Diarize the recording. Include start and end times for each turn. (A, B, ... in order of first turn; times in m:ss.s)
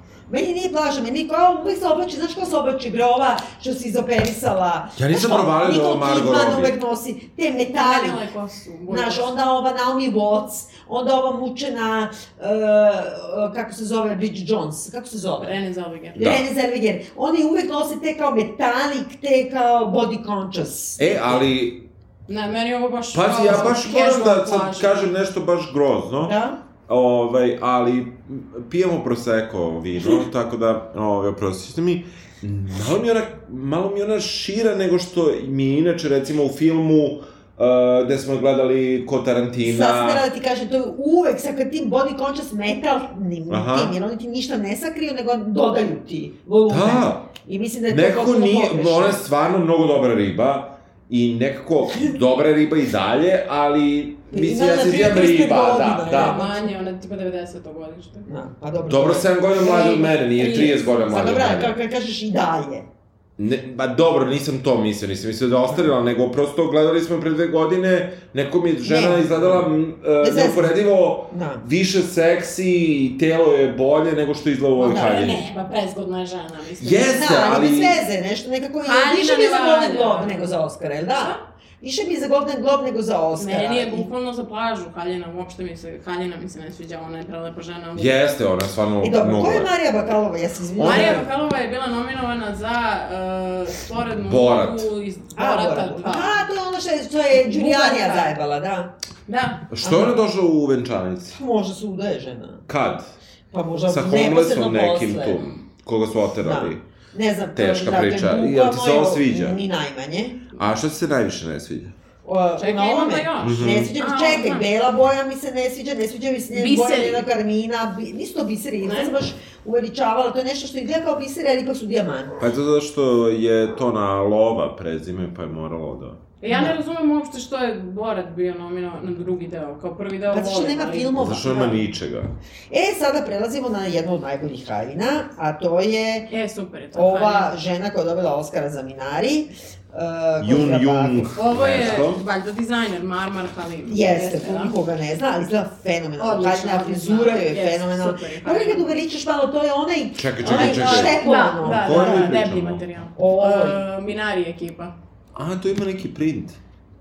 0:00.3-0:08.2 A
0:05.0-0:06.7 B
0:07.7-0:09.3 C
0:08.9-0:15.5 A
0:15.4-0:16.2 C
0:16.2-0:16.5 B
0:16.2-0:21.4 A
0:21.0-0:21.9 B
0:22.3-0:25.1 C
0:23.1-0:26.3 B
0:26.2-0:26.6 A
0:26.9-0:40.2 B
0:39.6-0:49.2 A
0:43.5-0:43.9 B
0:46.7-0:47.3 B
0:47.9-0:56.4 B
0:54.3-0:56.7 A
0:56.1-0:58.3 C
0:58.3-1:02.9 A
0:58.9-1:01.8 B
1:03.4-1:15.4 B
1:08.8-1:09.6 A
1:10.2-1:10.8 A
1:11.3-1:11.6 A
1:14.8-1:17.3 C
1:14.8-1:15.4 A
1:16.8-1:18.0 B
1:17.0-1:24.1 A
1:18.8-1:20.5 C
1:21.1-1:21.4 C
1:23.4-1:28.2 C
1:28.0-1:29.7 B
1:29.0-1:31.3 A
1:30.8-1:36.5 C
1:34.2-1:34.9 B
1:35.4-1:38.9 A
1:37.3-1:38.3 C
1:39.3-1:39.6 C
1:39.7-1:41.4 B
1:39.8-1:40.1 A
1:41.3-1:42.6 A
1:42.7-1:43.1 B
1:43.5-1:45.4 A
1:43.9-1:46.8 B
1:46.4-1:50.4 A
1:47.6-1:49.6 B
1:50.6-1:51.9 B
1:52.2-2:02.4 A
1:52.6-1:54.7 C
1:53.4-1:53.9 B
1:56.5-1:57.3 C
1:58.8-1:59.1 C
2:02.4-2:06.2 B
2:06.4-2:11.2 C
2:06.5-2:06.8 A
2:10.3-2:11.8 A
2:11.2-2:12.3 B
2:12.7-2:16.3 A
2:16.3-2:17.5 C
2:16.9-2:21.4 A
2:20.4-2:22.2 B
2:21.4-2:24.8 C
2:23.9-2:32.3 A
2:26.2-2:29.0 C
2:30.2-2:32.9 B
2:30.4-2:34.9 C
2:33.2-2:33.8 A
2:35.4-2:36.6 B